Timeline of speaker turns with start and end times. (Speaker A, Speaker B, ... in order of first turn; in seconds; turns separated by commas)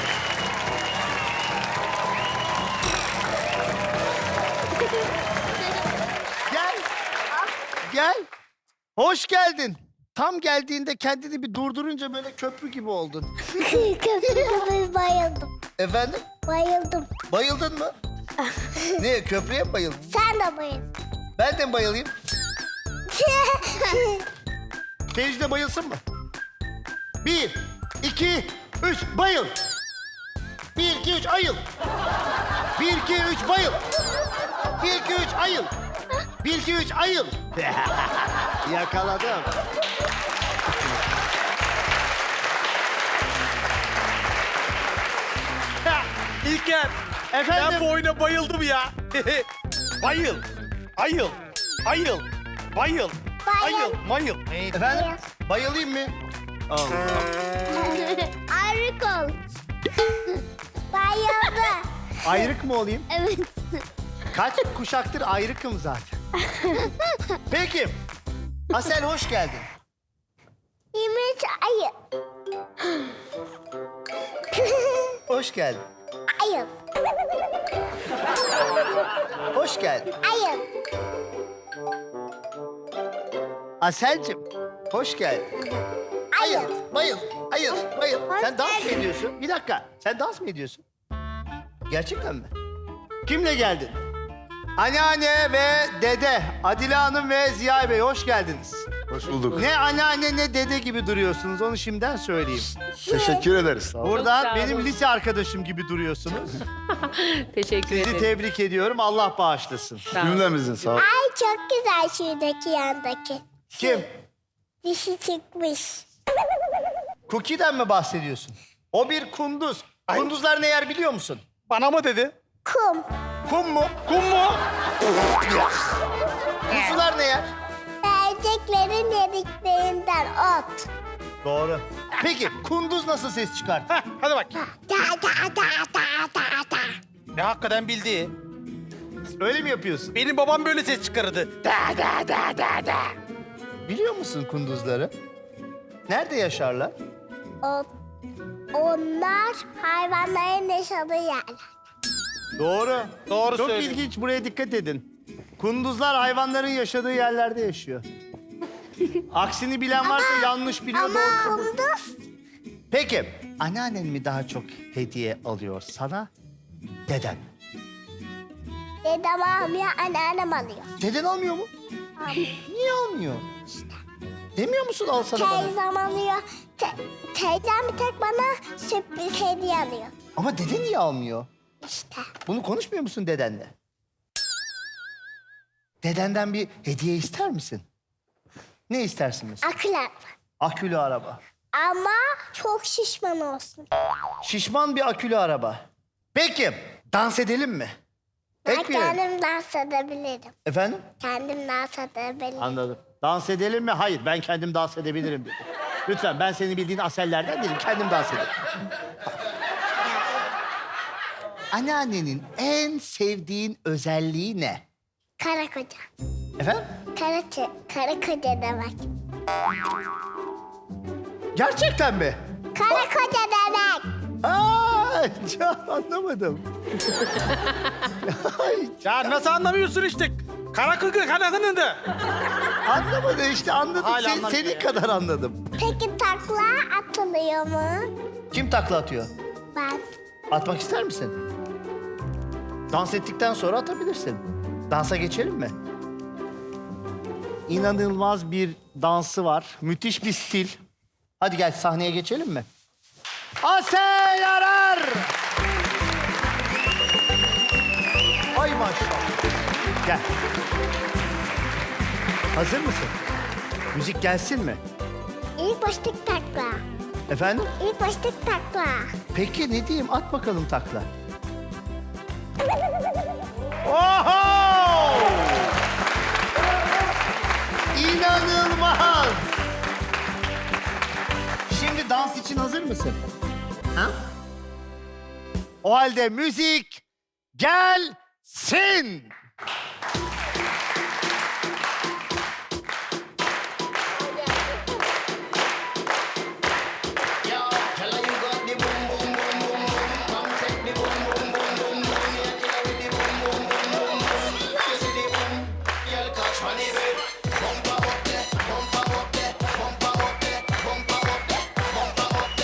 Speaker A: 6.5-6.8, Speaker A: 7.9-8.3, Speaker A: 9.0-13.7, Speaker B: 13.6-15.5, Speaker A: 15.8-16.2, Speaker B: 16.5-17.1, Speaker A: 17.3-17.9, Speaker A: 19.0-20.0, Speaker B: 20.1-20.9, Speaker A: 21.4-22.1, Speaker B: 23.1-24.2, Speaker A: 25.1-26.0, Speaker A: 27.2-29.5, Speaker A: 30.8-31.6, Speaker A: 32.8-33.8, Speaker A: 34.8-35.7, Speaker A: 36.4-39.5, Speaker C: 46.4-46.9, Speaker A: 47.3-47.9, Speaker C: 47.5-49.5, Speaker C: 50.0-50.4, Speaker C: 51.0-54.7, Speaker B: 53.5-54.0, Speaker A: 54.7-56.1, Speaker B: 54.9-55.2, Speaker A: 56.7-57.2, Speaker B: 60.9-61.8, Speaker A: 62.2-63.0, Speaker A: 64.3-66.1, Speaker A: 67.5-68.0, Speaker A: 68.7-69.7, Speaker B: 70.9-71.9, Speaker B: 74.5-75.2, Speaker A: 75.3-75.8, Speaker B: 76.4-76.7, Speaker A: 79.5-80.1, Speaker B: 80.2-80.6, Speaker A: 83.8-85.5, Speaker B: 86.3-86.8, Speaker A: 86.4-90.8, Speaker B: 88.4-88.9, Speaker A: 91.9-92.5, Speaker A: 93.2-94.0, Speaker A: 94.8-98.9, Speaker D: 99.1-99.7, Speaker A: 99.5-102.7, Speaker B: 103.0-103.5, Speaker D: 103.1-104.2, Speaker A: 104.0-106.6, Speaker E: 104.1-104.9, Speaker E: 107.0-108.3, Speaker A: 107.9-110.2, Speaker E: 110.1-110.5, Speaker D: 110.2-111.0, Speaker B: 111.0-114.1, Speaker A: 113.8-114.1, Speaker B: 114.8-116.0, Speaker A: 117.3-121.4, Speaker C: 121.7-122.3, Speaker B: 122.6-123.0, Speaker A: 123.5-123.9, Speaker C: 124.1-124.6, Speaker A: 126.7-127.5, Speaker C: 126.7-127.0, Speaker B: 128.0-130.9, Speaker A: 131.4-133.9, Speaker C: 133.9-134.5, Speaker B: 134.8-136.9, Speaker C: 137.3-138.3, Speaker A: 139.4-140.1, Speaker C: 140.1-143.1, Speaker A: 143.9-145.1, Speaker A: 146.1-146.9, Speaker B: 147.6-147.9, Speaker B: 148.7-151.6, Speaker A: 152.6-155.1, Speaker C: 153.3-154.0, Speaker A: 155.6-158.0, Speaker A: 159.3-161.7, Speaker B: 160.0-162.2, Speaker A: 162.9-166.3, Speaker A: 167.1-167.4, Speaker B: 169.0-170.9, Speaker A: 171.0-171.7, Speaker B: 172.2-172.5, Speaker A: 172.4-173.5, Speaker B: 173.7-174.0, Speaker A: 174.6-175.7, Speaker B: 175.3-180.1, Speaker A: 180.3-181.5, Speaker B: 181.8-182.3, Speaker A: 182.4-183.7, Speaker A: 186.0-187.8, Speaker A: 188.9-189.7, Speaker B: 189.6-190.3, Speaker A: 190.6-191.4, Speaker B: 191.7-193.9, Speaker A: 194.4-195.8, Speaker A: 196.3-197.9, Speaker B: 198.7-200.5, Speaker A: 198.7-199.2, Speaker A: 200.7-201.0, Speaker B: 201.2-202.8, Speaker A: 202.6-208.5, Speaker A: 211.7-214.8, Speaker B: 215.4-216.0, Speaker A: 216.6-216.8, Speaker B: 217.2-219.1, Speaker A: 221.5-223.1, Speaker B: 222.7-224.0, Speaker A: 224.4-226.6, Speaker A: 228.2-229.0, Speaker C: 229.0-232.0, Speaker A: 232.8-235.6, Speaker C: 234.0-234.9, Speaker B: 235.8-238.1, Speaker A: 238.5-239.3, Speaker B: 239.7-240.0, Speaker A: 240.5-241.4, Speaker A: 242.9-245.7, Speaker A: 247.7-250.8, Speaker A: 251.4-252.7, Speaker A: 253.6-255.3, Speaker A: 258.5-259.3, Speaker A: 262.5-263.1, Speaker A: 263.9-264.8, Speaker B: 265.6-266.8, Speaker A: 267.3-267.6, Speaker B: 267.7-269.1, Speaker A: 269.3-271.1, Speaker A: 273.8-275.7, Speaker A: 277.9-279.5, Speaker A: 281.7-283.3, Speaker A: 285.8-287.0, Speaker A: 287.6-289.3